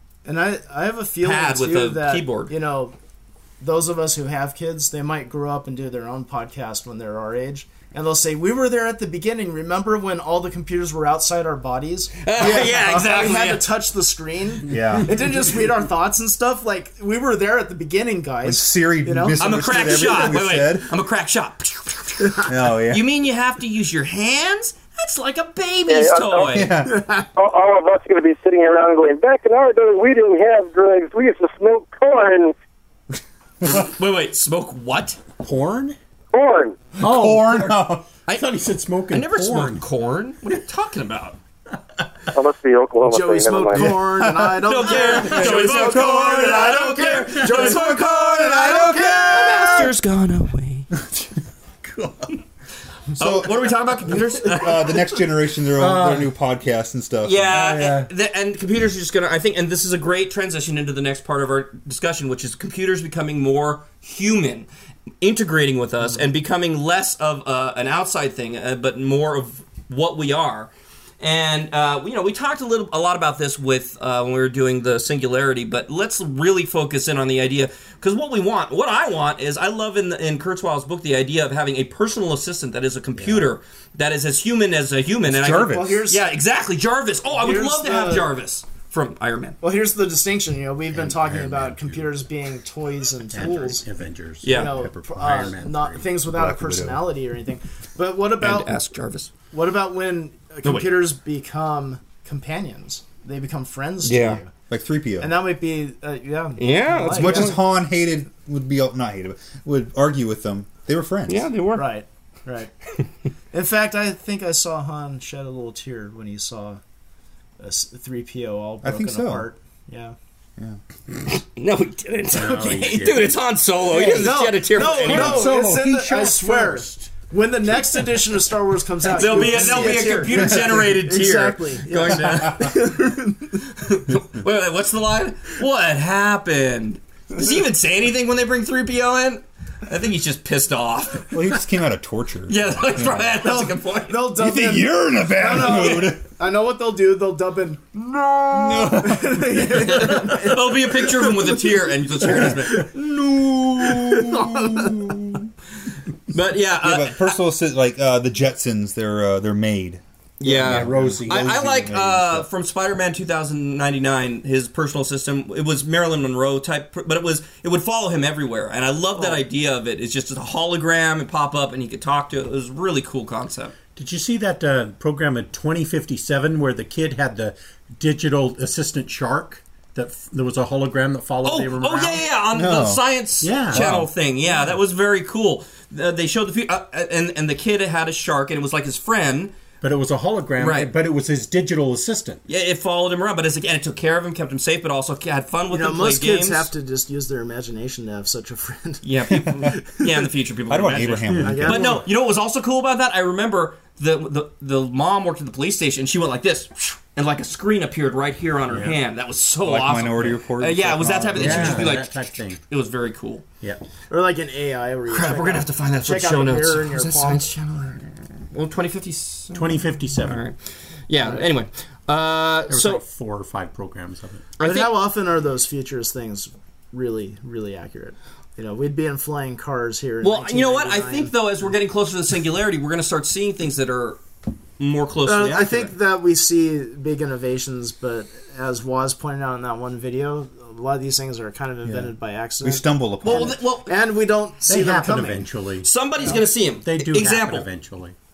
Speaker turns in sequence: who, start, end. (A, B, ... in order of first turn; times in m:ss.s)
0:00.2-0:02.9 A
0:01.2-0:02.5 B
0:03.6-0:20.2 A
0:12.2-0:13.7 B
0:14.7-0:15.3 C
0:18.4-0:20.9 C
0:19.4-0:26.7 B
0:22.4-0:23.0 C
0:25.9-0:26.7 D
0:26.4-0:27.0 C
0:26.8-0:27.3 A
0:27.3-0:32.5 D
0:33.6-0:35.2 B
0:35.4-0:36.0 E
0:36.3-0:36.8 D
0:37.0-0:37.7 E
0:37.0-0:38.0 C
0:38.3-0:39.8 E
0:39.1-0:41.4 B
0:42.3-0:44.0 D
0:43.1-0:49.9 A
0:43.7-0:44.7 C
0:44.6-0:50.9 B
0:45.3-0:46.5 C
0:47.6-0:49.6 C
0:51.8-0:52.1 C
0:53.2-0:55.0 B
0:53.2-0:53.6 C
0:54.2-0:57.8 C
0:55.8-0:56.3 E
0:57.2-1:04.7 B
0:57.5-0:58.1 E
1:05.2-1:29.6 B
1:25.3-1:26.0 C
1:25.4-1:26.2 A
1:27.3-1:28.3 A
1:29.6-1:33.8 A
1:30.9-1:32.2 E
1:33.3-1:36.0 E
1:34.4-1:34.8 B
1:34.4-1:38.8 A
1:34.6-1:35.6 C
1:36.3-1:37.0 C
1:38.4-1:39.3 B
1:39.5-1:44.5 A
1:40.6-1:40.9 B
1:44.0-1:44.4 B
1:44.7-1:45.3 C
1:45.2-1:47.6 A
1:46.6-1:47.6 B
1:47.1-1:51.5 C
1:51.3-1:51.8 B
1:51.7-1:52.7 A
1:53.5-1:56.8 A
1:57.6-2:00.1 A
1:58.8-1:59.4 C
2:01.3-2:05.5 B
2:02.3-2:03.3 E
2:03.9-2:04.3 C
2:04.0-2:13.6 A
2:04.8-2:07.2 E
2:09.1-2:13.0 B
2:09.5-2:09.8 E
2:13.8-2:21.4 B
2:21.3-2:23.4 C
2:22.5-2:24.3 B
2:23.4-2:35.0 A
2:24.4-2:26.2 C
2:28.5-2:30.2 C
2:29.7-2:33.0 B
2:33.8-2:34.2 B
2:34.1-2:35.2 C
2:36.3-2:37.4 B
2:36.8-2:42.4 C
2:40.4-2:53.8 B
2:40.4-2:41.6 E
2:53.9-3:02.2 E
3:01.4-3:09.5 B
3:02.5-3:03.0 C
3:03.4-3:03.9 E
3:03.7-3:04.1 C
3:09.8-3:12.4 E
3:10.6-3:10.9 B
3:12.5-3:16.7 B
3:15.7-3:20.0 A
3:19.0-3:33.4 B
3:19.4-3:19.7 C
3:20.7-3:22.0 C
3:21.4-3:21.6 E
3:21.4-3:22.0 A
3:28.7-3:28.9 E
3:29.6-3:32.0 C
3:31.3-3:32.6 E
3:34.1-3:37.4 A
3:35.1-3:40.6 B
3:39.5-3:40.4 E
3:41.1-3:43.0 B
3:42.7-3:44.4 E
3:44.6-3:45.0 B
3:44.6-3:51.4 A
3:50.2-3:54.2 B
3:54.8-3:55.9 B
3:55.2-4:05.5 A
4:02.6-4:03.6 C
4:03.2-4:03.9 B
4:04.6-4:08.1 E
4:05.8-4:07.7 B